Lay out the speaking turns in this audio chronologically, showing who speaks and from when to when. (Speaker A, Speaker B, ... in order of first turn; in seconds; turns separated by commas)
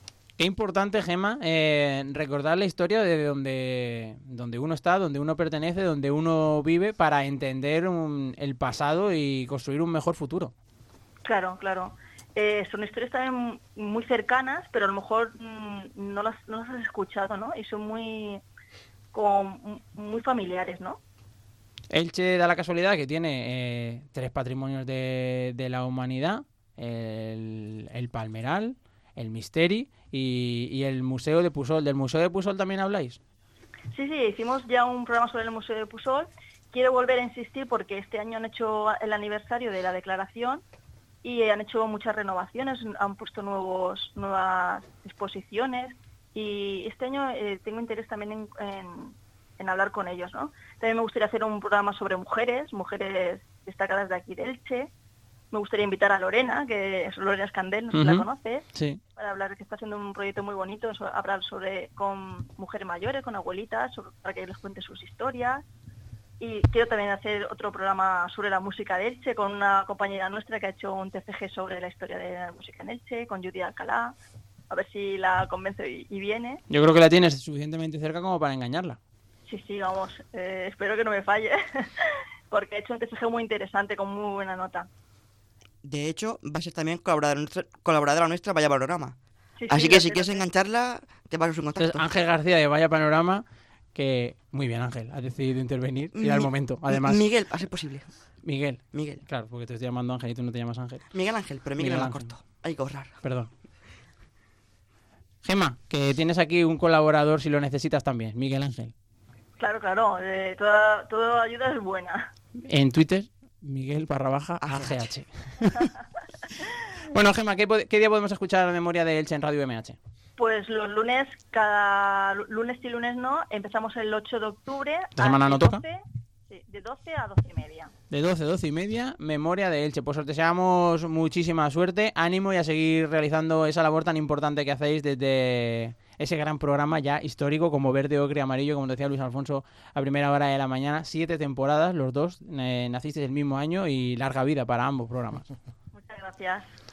Speaker A: 0.4-10.5, Speaker B: 11.3-18.4, Speaker B: 19.1-21.0, Speaker A: 21.9-33.2, Speaker B: 33.9-40.6, Speaker B: 41.2-54.9, Speaker B: 55.5-65.6, Speaker A: 57.9-59.0, Speaker B: 66.4-74.2, Speaker B: 74.7-76.6, Speaker A: 76.7-79.0, Speaker B: 79.5-81.9, Speaker B: 82.5-84.9, Speaker C: 85.8-89.2, Speaker B: 89.6-90.5, Speaker C: 89.7-92.0, Speaker A: 91.8-93.4, Speaker A: 94.0-97.2, Speaker C: 96.2-98.1, Speaker A: 98.4-101.0, Speaker C: 98.9-99.2, Speaker C: 101.1-103.1, Speaker A: 101.8-102.3, Speaker A: 103.2-103.5, Speaker A: 105.4-108.9, Speaker B: 109.6-112.3, Speaker A: 112.6-115.9, Speaker A: 117.1-120.0, Speaker B: 120.4-127.9, Speaker A: 125.2-125.8, Speaker A: 128.1-145.5, Speaker B: 145.9-146.7